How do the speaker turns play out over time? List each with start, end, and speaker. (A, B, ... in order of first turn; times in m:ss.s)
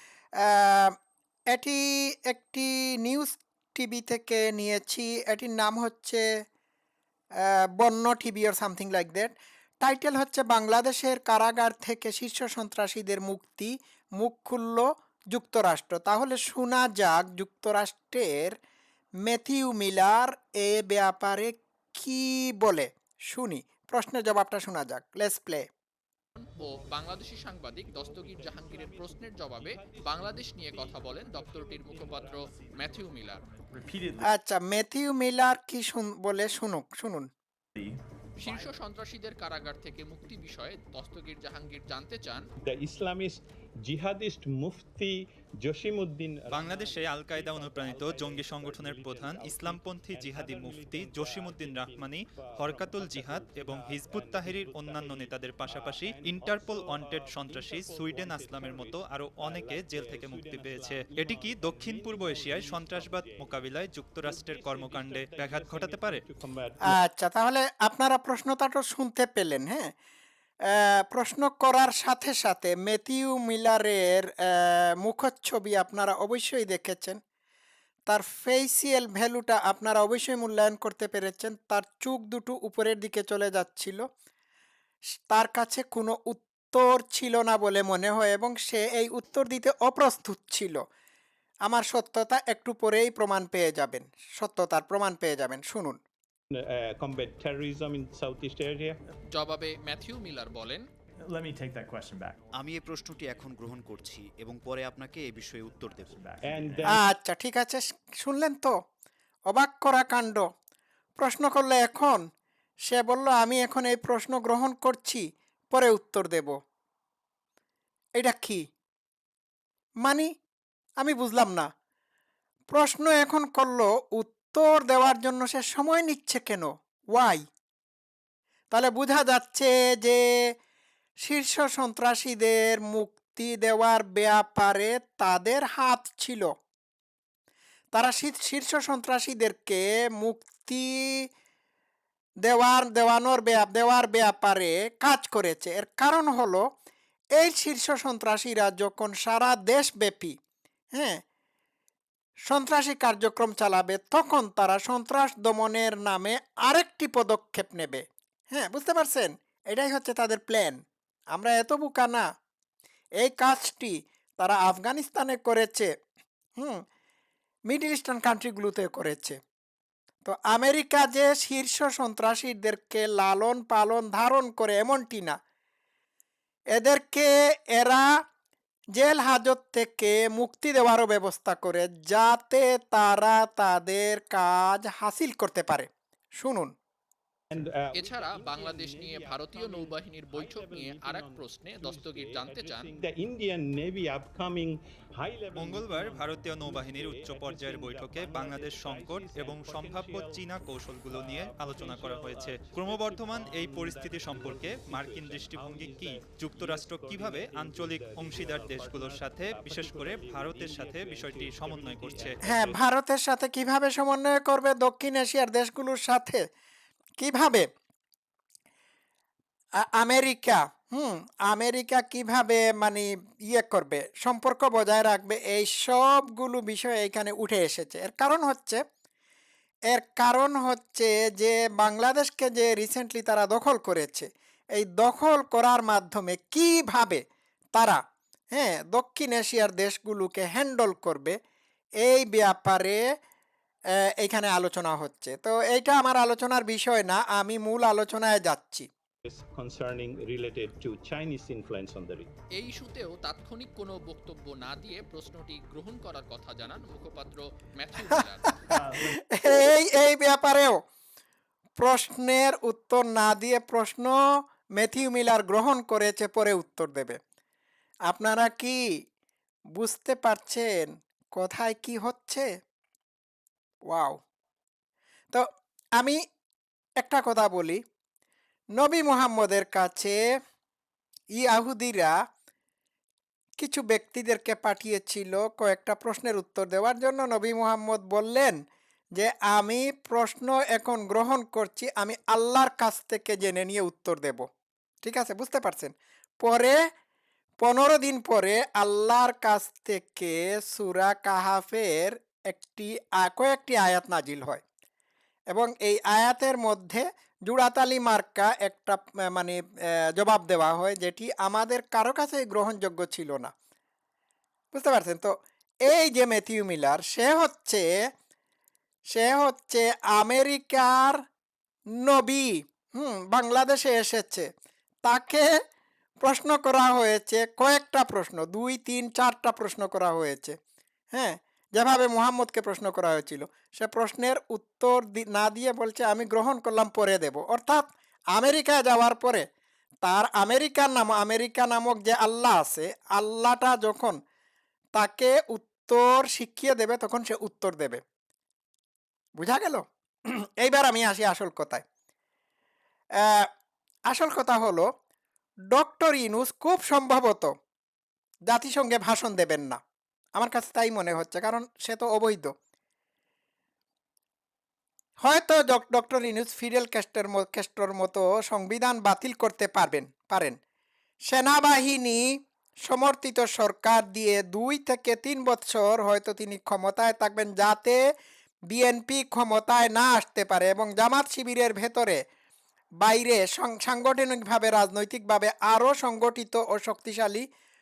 0:00.4-0:00.9 A
0:01.5-0:06.2 A
0:07.4-0:18.6 A
0:19.2-0:25.6 A
0:26.4-0:33.5 B
0:26.6-0:33.1 C
0:33.7-0:34.3 D
0:34.2-0:37.3 A
0:38.4-0:42.4 B
0:42.6-1:03.5 C
0:46.5-1:06.2 E
1:04.2-1:06.9 C
1:06.9-1:09.9 A
1:10.7-1:17.2 A
1:18.1-1:24.0 A
1:25.3-1:30.8 A
1:31.6-1:36.0 A
1:36.5-1:39.0 C
1:39.3-1:40.8 B
1:41.2-1:42.4 D
1:42.5-1:46.8 F
1:46.1-1:46.9 D
1:46.5-1:47.0 C
1:46.9-1:48.7 A
1:49.5-1:50.4 A
1:51.2-1:52.2 A
1:52.9-1:56.5 A
1:58.2-1:58.6 A
2:01.0-2:01.7 A
2:02.7-2:07.4 A
2:08.7-2:10.2 A
2:11.2-2:16.5 A
2:17.9-2:21.2 A
2:22.4-2:26.6 A
2:27.4-2:30.3 A
2:32.5-2:40.8 A
2:41.3-2:42.2 A
2:43.2-2:45.9 A
2:47.7-2:49.4 A
2:50.2-2:55.4 A
2:56.7-2:58.1 A
2:59.0-3:05.9 A
3:06.4-3:06.7 A
3:07.5-3:32.8 C
3:07.9-3:12.9 B
3:15.5-3:32.4 E
3:32.4-3:36.4 A
3:37.2-3:37.6 A
3:39.8-3:48.8 A
3:49.9-3:57.2 A
3:57.7-3:58.0 A
3:58.5-4:01.4 A
4:02.0-4:03.0 A
4:04.2-4:08.8 A
4:09.2-4:12.3 C
4:12.6-4:18.5 B
4:18.7-4:20.8 A
4:18.7-4:19.2 D
4:21.8-4:24.1 A
4:24.8-4:27.2 A
4:28.1-4:28.8 A
4:29.8-4:32.4 A
4:33.9-4:34.2 A
4:37.0-4:37.8 A
4:38.8-4:40.2 A
4:41.4-4:42.1 A
4:43.6-4:48.6 A
4:49.2-4:54.4 A
4:55.0-4:56.8 A
4:57.6-5:04.6 A
5:05.5-5:09.6 A
5:10.2-5:13.5 A
5:14.7-5:15.3 A
5:15.9-5:17.8 A
5:19.1-5:21.2 A
5:22.0-5:24.5 A
5:25.0-5:25.5 A
5:26.2-5:30.5 A
5:31.1-5:39.4 A
5:40.0-5:44.2 A
5:45.0-5:48.0 A
5:49.4-5:51.8 A
5:53.2-5:53.5 A
5:54.1-5:54.8 A
5:55.7-5:57.5 A
5:58.5-5:59.8 A
6:00.4-6:02.5 A
6:05.2-6:10.6 A
6:11.3-6:12.2 A
6:12.9-6:18.0 A
6:18.7-6:22.2 A
6:23.0-6:27.4 A